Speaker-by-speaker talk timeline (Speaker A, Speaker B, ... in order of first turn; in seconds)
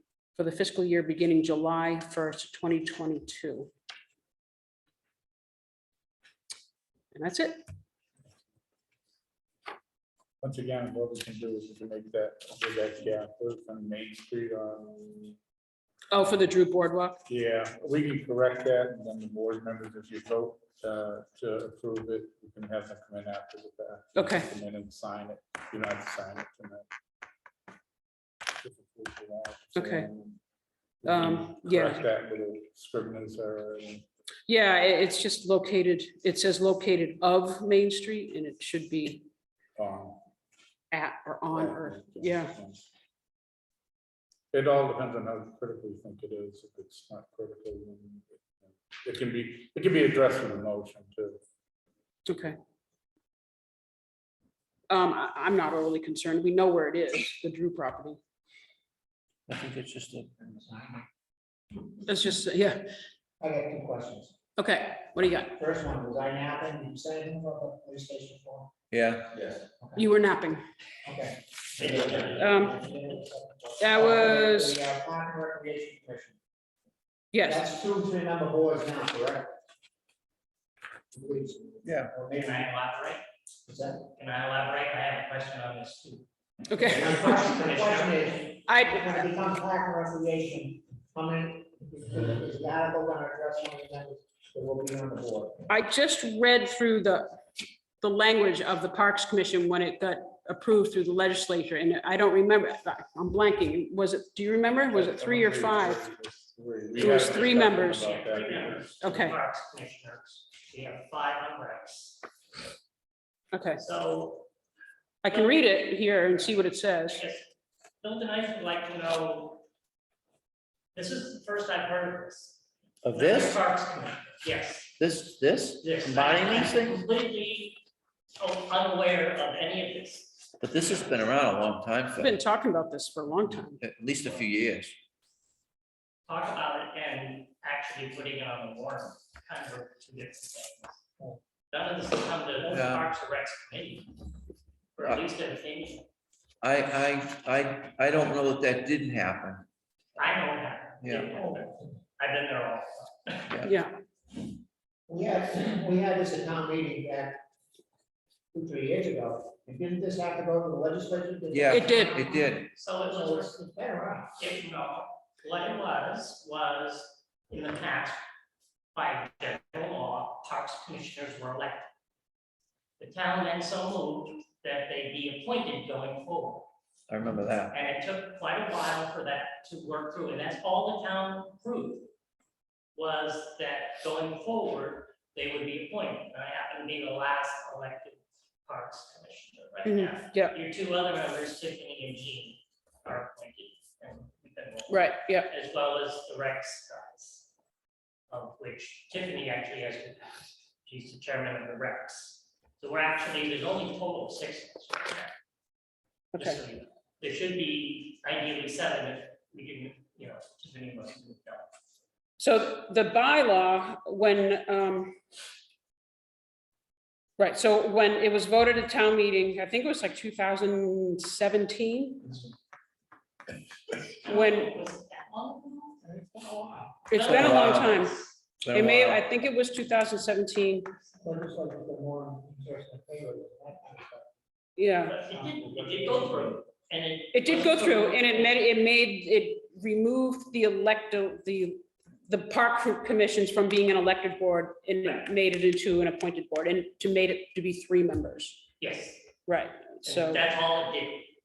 Speaker A: 0.3-3.7, 7.1-7.6, 16.1-17.2, 24.1-24.5, 29.7-30.1, 31.0-32.0, 34.5-39.2, 40.9-42.5, 52.3-52.6, 54.9-58.2, 62.0-62.8, 64.6-65.6, 70.0-70.6, 72.3-72.8, 73.8-74.8, 77.3-77.7, 86.7-87.1, 88.7-89.2, 95.7-97.4, 98.0-106.0, 107.0-108.1, 109.0-109.4, 113.5-113.8, 115.2-117.2, 132.2-133.8, 153.6-153.9, 161.7-162.3, 189.8-190.6, 194.9-195.5, 206.3-206.6, 212.4-215.1, 217.4-222.4, 224.2-224.7, 227.1-228.2, 228.7-230.9, 234.8-235.2, 237.3-248.7, 249.5-250.4
Speaker B: 10.4-15.4, 17.3-26.9, 28.6-30.4, 31.0-34.0, 39.8-40.2, 41.5-42.9, 44.5-51.4, 104.9-109.2, 235.7-236.5
Speaker C: 59.5-60.3, 68.9-69.6, 81.8-82.1, 123.0-123.6, 125.0-127.1, 130.6-132.4, 133.8-134.9, 142.7-143.1, 146.6-149.7, 151.0-151.3, 161.5-162.7, 177.1-177.8, 227.2-228.0, 228.6-229.2
Speaker D: 60.4-61.0, 63.4-64.3, 65.5-68.7, 71.0-76.4, 77.4-79.5, 81.1-82.7, 83.7-84.0, 86.8-95.7, 155.1-157.4, 158.5-162.3, 163.0-164.3, 226.0-226.9, 231.2-234.3
Speaker E: 71.8-72.3, 82.3-83.2, 84.2-88.4, 107.0-112.3, 113.8-114.5, 115.2-116.3, 117.0-117.5, 118.0-119.6, 120.9-124.9, 125.8-127.8, 128.4-130.5, 136.2-141.0, 141.7-144.2, 144.9-146.1, 150.2-153.6, 161.9-163.5, 164.3-168.2, 168.9-171.9, 173.0-176.7, 177.7-182.1, 182.9-197.5, 198.3-205.3, 206.3-211.7, 224.2-226.0, 227.1-228.3, 235.0-238.5, 248.8-249.3, 250.0-251.3